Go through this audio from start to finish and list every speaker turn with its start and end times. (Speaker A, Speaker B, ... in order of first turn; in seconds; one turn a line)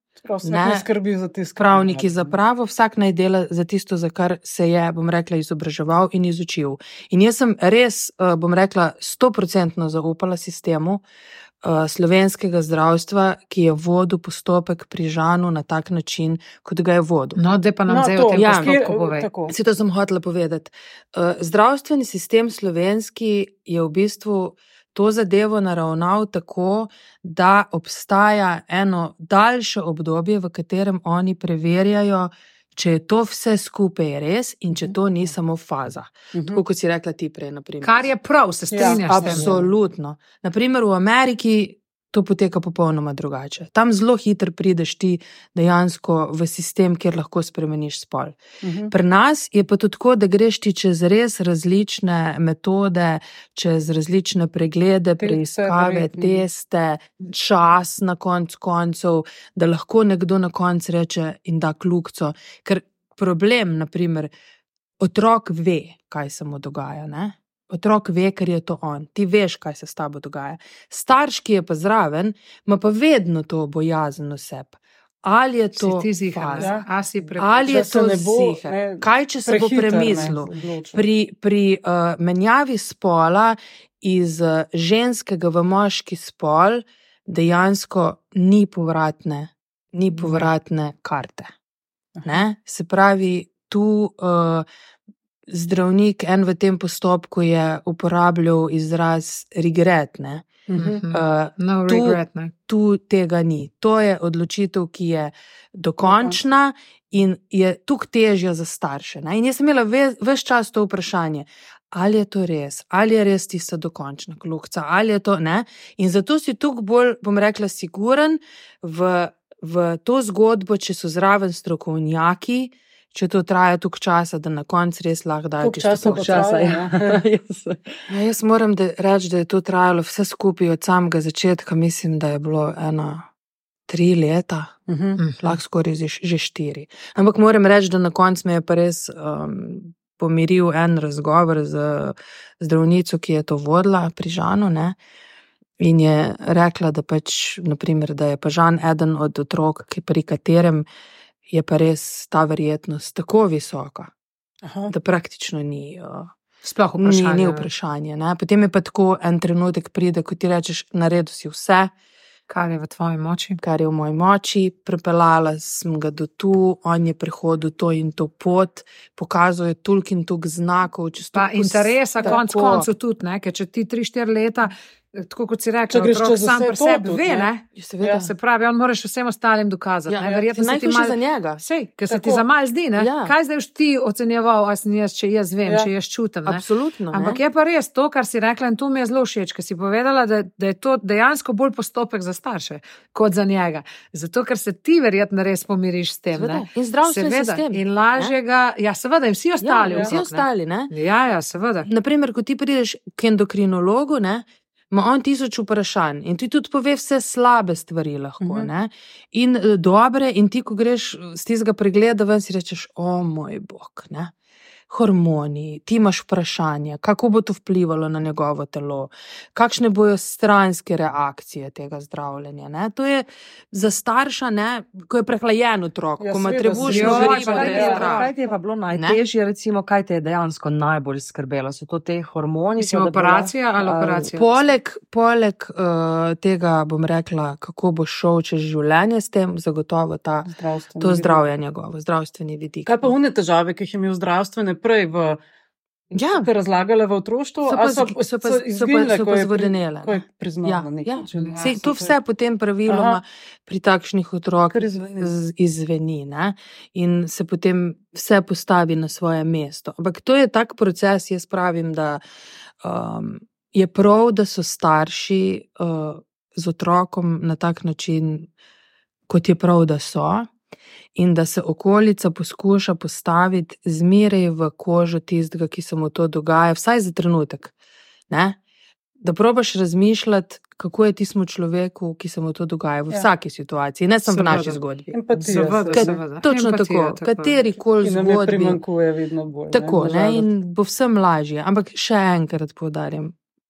Speaker A: 0.2-2.4
Speaker B: 0.4-0.8
Speaker B: 1.6-11.0
Speaker B: 11.6-17.4
Speaker C: 17.4-19.3
Speaker A: 17.9-19.6
Speaker B: 18.4-18.7
Speaker B: 19.5-38.1
Speaker A: 34.7-35.3
Speaker A: 36.3-36.6
Speaker C: 37.8-39.5
Speaker A: 38.7-39.6
Speaker B: 38.8-48.4
Speaker A: 48.6-48.9
Speaker B: 48.9-64.3
Speaker A: 55.2-56.4
Speaker B: 65.0-76.7
Speaker C: 75.8-77.7
Speaker A: 76.6-76.8
Speaker B: 77.3-91.5
Speaker A: 77.6-81.0
Speaker A: 92.2-92.4
Speaker B: 92.2-94.7
Speaker B: 95.5-126.6
Speaker A: 100.7-101.0
Speaker C: 100.8-102.5
Speaker A: 106.0-106.4
Speaker A: 125.6-127.2
Speaker D: 126.0-128.1
Speaker B: 128.1-133.3
Speaker B: 133.9-134.7
Speaker A: 134.9-135.2
Speaker C: 135.2-135.6
Speaker B: 135.4-145.0
Speaker B: 145.8-150.8
Speaker B: 151.5-154.1
Speaker A: 154.6-154.9
Speaker B: 154.9-156.3
Speaker C: 156.6-157.7
Speaker B: 157.0-161.9
Speaker C: 162.5-163.6
Speaker B: 163.6-172.9
Speaker C: 171.3-201.9
Speaker A: 175.9-177.5
Speaker B: 177.7-178.3
Speaker B: 180.1-181.6
Speaker A: 182.1-182.4
Speaker B: 183.0-183.3
Speaker B: 186.4-187.4
Speaker B: 196.3-198.3
Speaker B: 199.6-200.9
Speaker B: 201.8-214.3
Speaker A: 208.4-208.7
Speaker B: 214.9-228.3
Speaker A: 226.2-228.2
Speaker C: 226.8-228.5
Speaker D: 227.0-234.3
Speaker B: 228.9-229.2
Speaker C: 232.8-234.5
Speaker B: 234.3-243.1
Speaker A: 240.5-241.4
Speaker A: 242.8-245.4
Speaker B: 246.1-246.5
Speaker A: 246.2-252.1
Speaker B: 247.6-262.2
Speaker C: 251.3-251.7
Speaker A: 252.9-253.2
Speaker A: 254.7-255.3
Speaker B: 262.8-268.5
Speaker B: 269.3-270.5
Speaker B: 271.1-277.7
Speaker B: 278.3-278.6
Speaker B: 279.2-285.1
Speaker C: 284.3-284.8
Speaker A: 285.1-286.2
Speaker C: 285.4-287.6
Speaker B: 285.9-288.8
Speaker A: 288.0-290.5
Speaker B: 289.7-293.3